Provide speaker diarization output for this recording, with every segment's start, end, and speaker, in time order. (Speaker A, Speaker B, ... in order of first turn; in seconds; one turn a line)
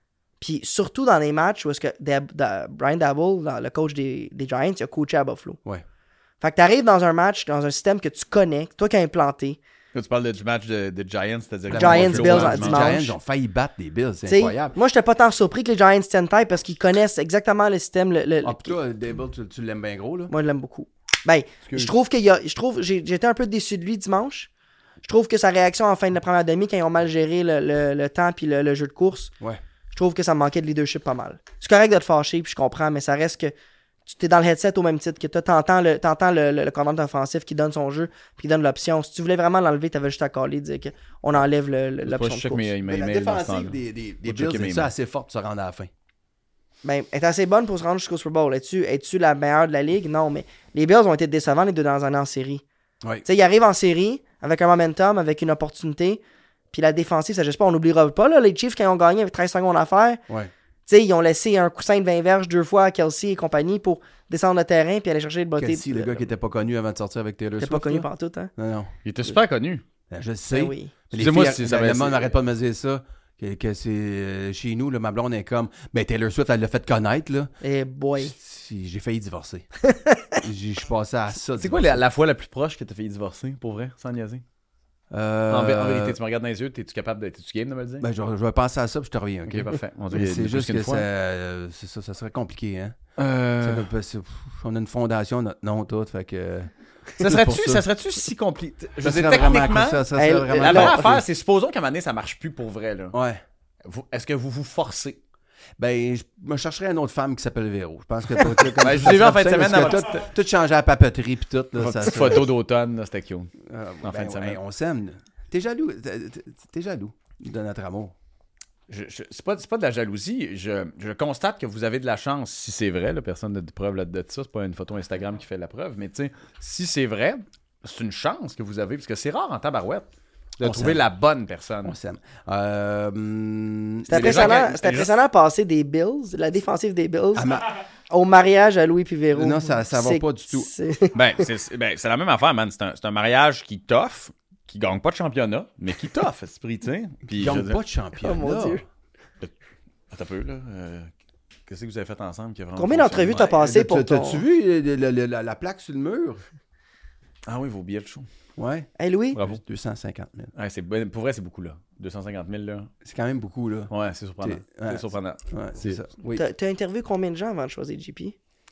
Speaker A: 0.4-5.6
Speaker A: 6.4-9.6
Speaker B: 9.9-13.0
Speaker C: 11.7-14.8
Speaker A: 11.8-13.2
Speaker A: 14.3-18.8
Speaker C: 18.4-20.3
Speaker A: 20.3-24.5
Speaker A: 25.0-29.3
Speaker A: 29.9-33.5
Speaker A: 34.1-42.7
Speaker B: 42.0-44.9
Speaker C: 42.8-45.9
Speaker A: 46.8-52.6
Speaker A: 53.2-56.2
Speaker A: 56.7-60.2
Speaker A: 60.9-66.2
Speaker C: 65.6-68.9
Speaker A: 67.6-68.5
Speaker B: 69.0-69.8
Speaker C: 70.1-77.5
Speaker A: 70.5-70.9
Speaker B: 71.1-72.3
Speaker A: 77.6-78.3
Speaker C: 78.2-79.7
Speaker A: 79.8-80.4
Speaker C: 80.4-82.0
Speaker B: 81.6-84.4
Speaker C: 85.1-86.2
Speaker B: 85.5-88.1
Speaker C: 88.0-97.8
Speaker B: 89.5-91.1
Speaker B: 93.6-93.9
Speaker B: 97.2-103.2
Speaker C: 99.0-101.2
Speaker A: 100.2-101.1
Speaker C: 103.1-103.4
Speaker B: 103.8-105.2
Speaker C: 105.8-112.5
Speaker B: 108.6-110.3
Speaker B: 111.8-114.6
Speaker C: 113.6-118.1
Speaker B: 118.9-131.9
Speaker C: 130.6-131.0
Speaker C: 131.8-134.7
Speaker A: 134.1-137.6
Speaker B: 134.1-135.1
Speaker C: 137.3-137.7
Speaker A: 138.1-141.2
Speaker C: 139.3-140.7
Speaker B: 141.1-147.8
Speaker C: 147.3-148.8
Speaker A: 148.2-148.8
Speaker B: 150.1-151.1
Speaker B: 151.7-153.4
Speaker A: 152.8-154.4
Speaker C: 153.3-156.4
Speaker B: 157.5-158.3
Speaker C: 158.6-158.9
Speaker A: 159.0-159.4
Speaker B: 159.3-159.6
Speaker C: 159.4-160.5
Speaker B: 160.6-162.9
Speaker C: 163.0-166.4
Speaker B: 163.9-166.0
Speaker A: 166.3-168.4